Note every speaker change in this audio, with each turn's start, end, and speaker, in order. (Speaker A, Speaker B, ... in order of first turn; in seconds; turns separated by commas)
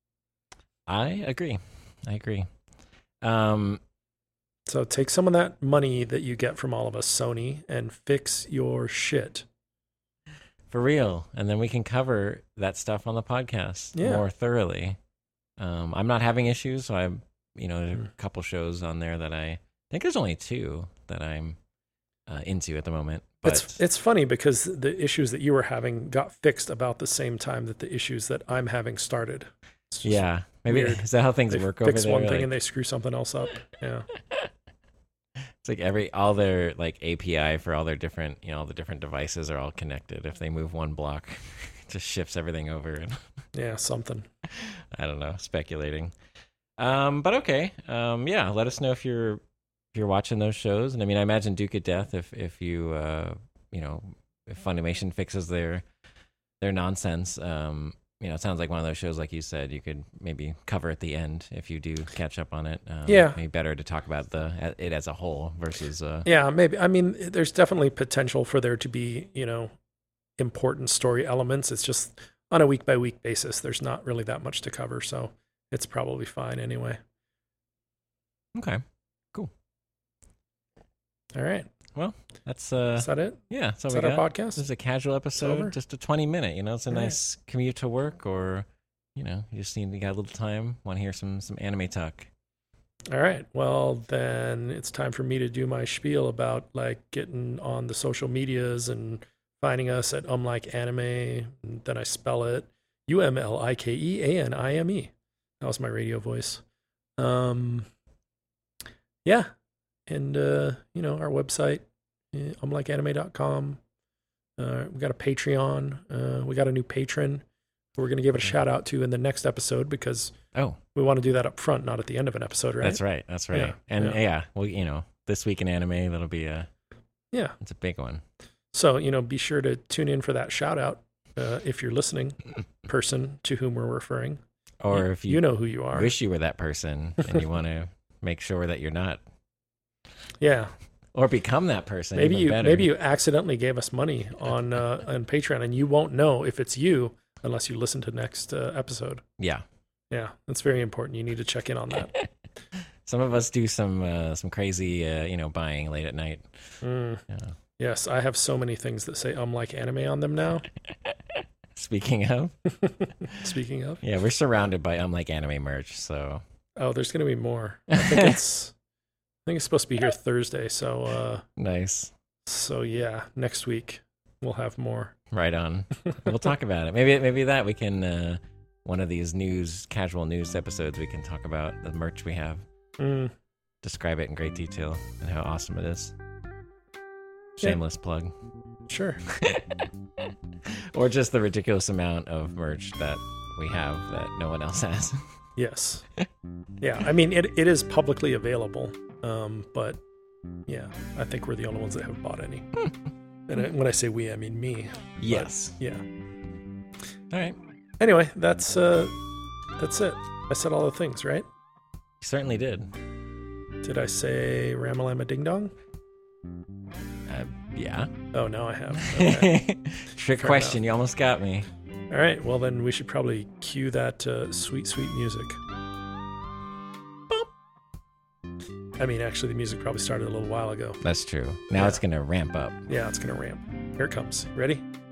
Speaker A: 0.9-2.5, Speaker A: 3.2-3.8, Speaker B: 4.7-9.4, Speaker A: 10.7-15.0, Speaker B: 13.9-14.2, Speaker A: 15.6-21.6, Speaker A: 22.3-23.8, Speaker B: 23.4-34.1, Speaker A: 30.0-32.5, Speaker A: 34.2-34.5, Speaker A: 35.6-43.2, Speaker B: 43.5-44.3, Speaker A: 44.5-46.1, Speaker A: 46.8-49.4, Speaker A: 49.9-55.8, Speaker A: 56.6-66.3, Speaker B: 63.1-63.4, Speaker B: 66.2-69.7, Speaker B: 70.4-77.0, Speaker A: 78.5-79.5, Speaker B: 81.3-81.7, Speaker A: 81.9-92.3, Speaker B: 83.0-84.6, Speaker B: 85.4-85.7, Speaker B: 93.1-106.6, Speaker B: 107.2-107.9, Speaker B: 110.1-113.8, Speaker B: 114.6-117.4, Speaker B: 118.0-120.4, Speaker A: 120.5-120.8, Speaker B: 120.9-123.0, Speaker A: 122.8-126.7, Speaker B: 123.5-124.2, Speaker A: 127.6-128.2, Speaker B: 128.7-134.4, Speaker A: 134.8-139.2, Speaker B: 134.9-136.1, Speaker B: 140.4-140.7, Speaker A: 141.1-142.9, Speaker B: 142.1-149.2, Speaker A: 149.4-149.6, Speaker B: 150.1-152.2, Speaker A: 152.2-156.8, Speaker B: 156.8-157.2, Speaker A: 157.3-157.6, Speaker B: 157.8-160.7, Speaker A: 161.1-162.6, Speaker B: 162.8-164.0, Speaker A: 164.0-166.4, Speaker B: 166.8-168.7, Speaker A: 167.9-168.4, Speaker B: 169.4-171.4, Speaker A: 171.6-172.1, Speaker B: 172.4-175.1, Speaker A: 175.3-182.7, Speaker B: 183.0-183.3, Speaker A: 183.8-186.1, Speaker A: 187.6-188.3, Speaker B: 188.9-189.2, Speaker A: 189.2-189.9, Speaker A: 190.6-195.3, Speaker B: 195.6-196.1, Speaker B: 196.8-200.0, Speaker B: 200.7-202.7, Speaker B: 203.5-206.0, Speaker A: 205.2-205.8, Speaker A: 207.3-207.6, Speaker B: 208.0-209.2, Speaker B: 209.8-211.4, Speaker A: 212.2-212.9, Speaker B: 213.8-215.7, Speaker A: 217.3-218.1, Speaker B: 218.3-219.6, Speaker A: 218.9-221.7, Speaker B: 220.4-220.8, Speaker B: 222.1-225.6, Speaker B: 229.0-231.0, Speaker A: 231.0-232.8, Speaker B: 232.9-234.8